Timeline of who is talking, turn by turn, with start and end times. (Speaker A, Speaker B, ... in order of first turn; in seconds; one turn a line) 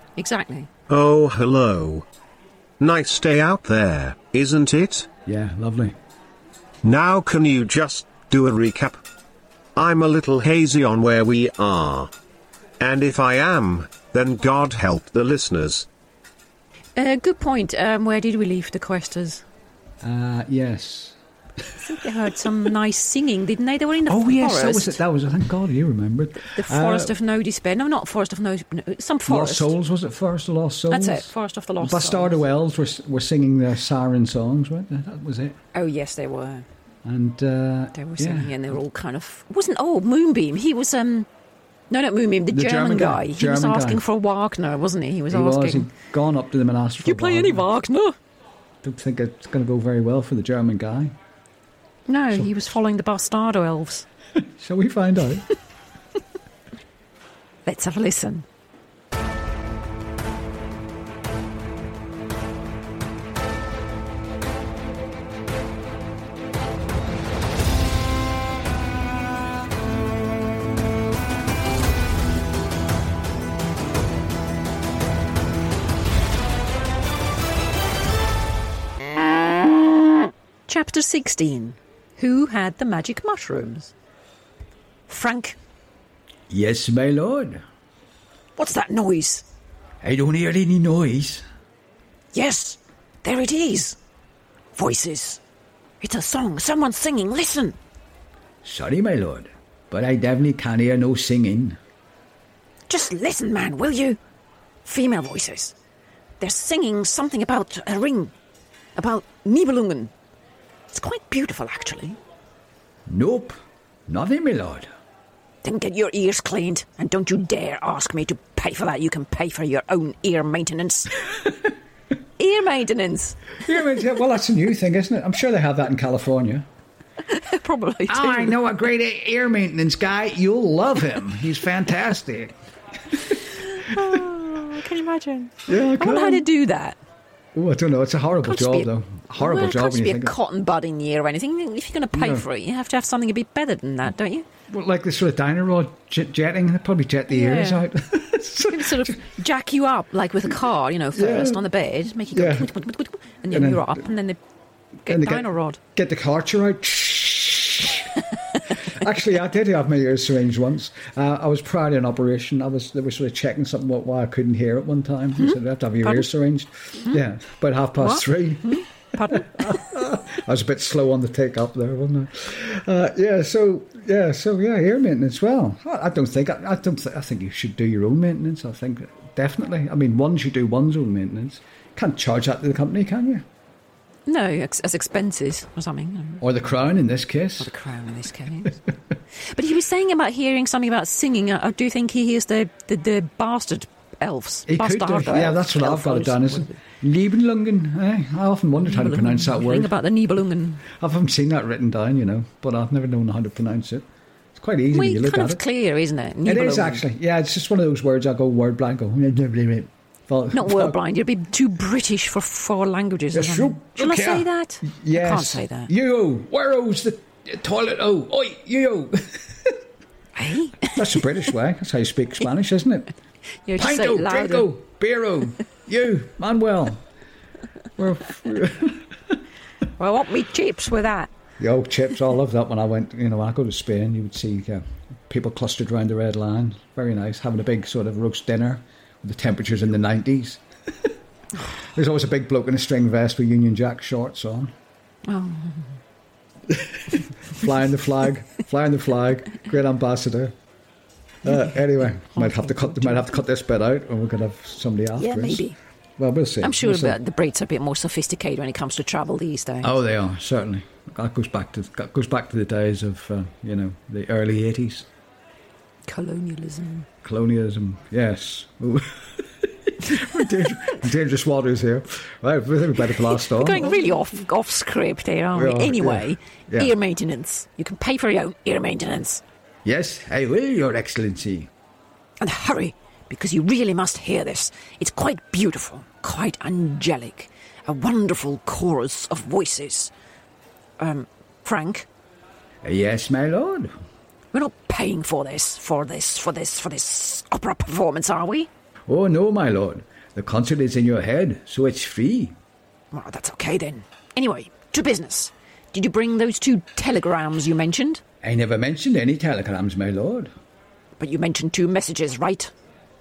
Speaker A: 0.2-0.7
Speaker B: 0.9-2.1
Speaker B: 2.8-5.1
Speaker C: 5.3-6.0
Speaker B: 6.8-9.0
Speaker B: 9.8-12.1
Speaker B: 12.8-15.9
Speaker A: 17.0-19.4
Speaker C: 20.0-21.7
Speaker A: 21.9-25.0
Speaker C: 24.1-27.1
Speaker A: 26.4-29.7
Speaker C: 29.3-35.6
Speaker A: 30.9-32.4
Speaker A: 35.7-36.7
Speaker C: 37.0-38.7
Speaker A: 37.9-41.3
Speaker A: 41.9-45.9
Speaker C: 42.5-44.0
Speaker C: 45.3-47.7
Speaker A: 47.0-48.1
Speaker C: 48.8-51.1
Speaker A: 52.1-54.1
Speaker C: 52.3-52.6
Speaker C: 54.4-55.5
Speaker A: 57.7-58.5
Speaker A: 80.7-83.9
Speaker A: 85.1-85.6
Speaker C: 86.5-87.6
Speaker A: 88.6-89.5
Speaker C: 90.0-91.4
Speaker A: 92.3-94.0
Speaker A: 94.8-95.4
Speaker A: 96.0-97.8
Speaker C: 98.6-101.8
Speaker A: 102.9-104.2
Speaker A: 104.8-105.8
Speaker A: 106.4-108.3
Speaker A: 109.0-110.1
Speaker A: 110.9-112.2
Speaker C: 113.1-113.6
Speaker C: 114.1-114.9
Speaker A: 115.6-121.2
Speaker A: 122.4-123.6
Speaker C: 123.6-126.7
Speaker A: 127.3-128.6
Speaker C: 128.1-132.6
Speaker C: 133.1-133.4
Speaker A: 133.3-137.0
Speaker C: 135.7-136.5
Speaker C: 137.5-140.3
Speaker A: 138.4-144.5
Speaker C: 142.1-142.4
Speaker C: 144.7-149.2
Speaker A: 147.3-147.9
Speaker A: 148.7-154.4
Speaker C: 151.1-151.7
Speaker C: 152.3-152.8
Speaker C: 153.5-154.1
Speaker A: 155.1-155.8
Speaker C: 155.1-183.5
Speaker A: 165.4-166.3
Speaker A: 168.0-169.9
Speaker A: 184.3-186.4
Speaker C: 186.4-187.7
Speaker A: 187.6-188.8
Speaker A: 189.5-196.8
Speaker C: 194.7-199.9
Speaker A: 198.8-200.9
Speaker C: 200.9-205.6
Speaker A: 204.9-207.0
Speaker C: 206.4-211.0
Speaker A: 210.5-215.9
Speaker C: 213.3-219.8
Speaker A: 220.3-221.2
Speaker C: 220.9-223.1
Speaker A: 223.7-224.7
Speaker C: 223.8-227.0
Speaker C: 228.0-229.4
Speaker A: 230.0-231.3
Speaker C: 231.6-240.6
Speaker C: 241.9-244.7
Speaker A: 245.2-245.9
Speaker C: 246.7-250.6
Speaker C: 251.4-255.7
Speaker A: 252.3-253.3
Speaker A: 255.2-255.8
Speaker C: 256.2-257.2
Speaker A: 256.6-259.9
Speaker C: 259.8-265.1
Speaker A: 266.1-267.1
Speaker C: 267.2-274.0
Speaker A: 273.4-279.4
Speaker C: 275.5-276.9
Speaker C: 279.9-281.7
Speaker A: 282.4-290.1
Speaker A: 291.0-292.1
Speaker C: 292.8-293.9
Speaker A: 294.5-298.7
Speaker C: 299.1-302.6
Speaker A: 303.1-308.2
Speaker C: 308.4-310.5
Speaker A: 311.2-312.7